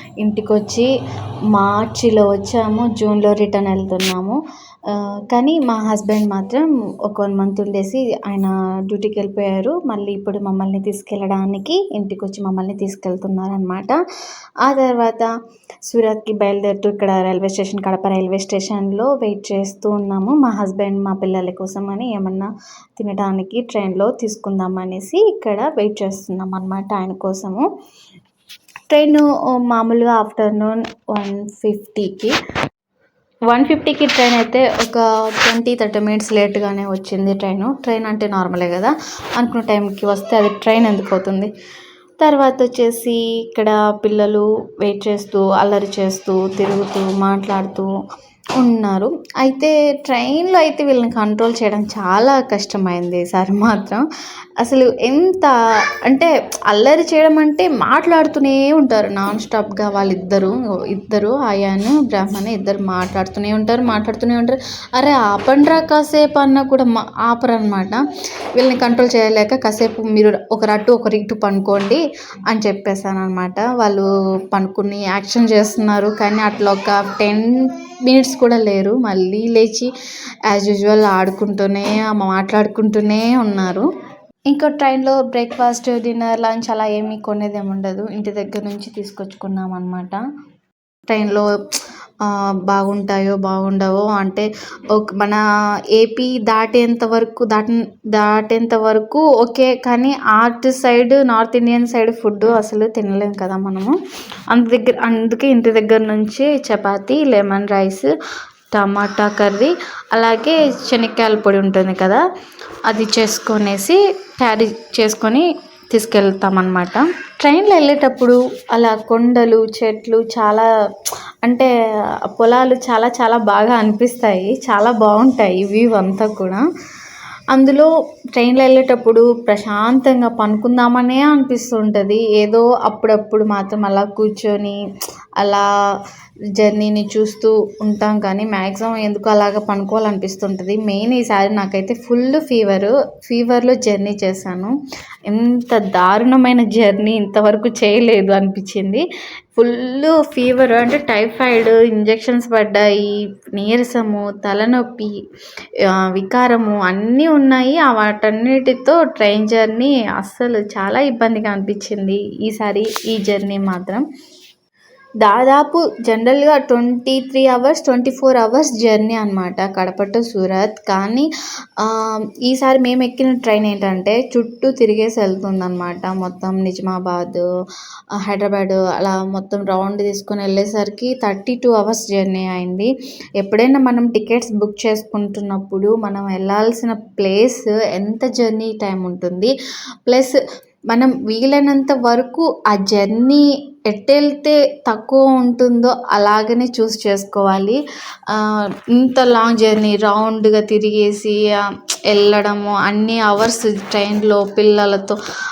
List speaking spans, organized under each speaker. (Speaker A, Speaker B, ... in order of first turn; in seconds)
Speaker A: 0.2-0.9, 1.5-4.4, 4.9-14.0, 14.7-15.3, 15.9-27.6, 28.9-32.3, 33.5-41.5, 42.2-47.9, 48.6-54.0, 54.6-55.5, 56.1-68.0, 68.5-79.9, 80.5-83.9, 84.5-90.2, 91.1-91.5, 92.2-95.4, 95.9-104.0, 104.5-108.1, 108.7-112.2, 112.9-120.7, 121.4-121.7, 122.3-126.6, 127.5-134.8, 136.6-144.7, 145.3-149.0, 149.6-155.1, 155.9-164.0, 165.2-171.3, 171.8-177.4, 178.2-189.5, 190.1-190.4, 190.9-205.2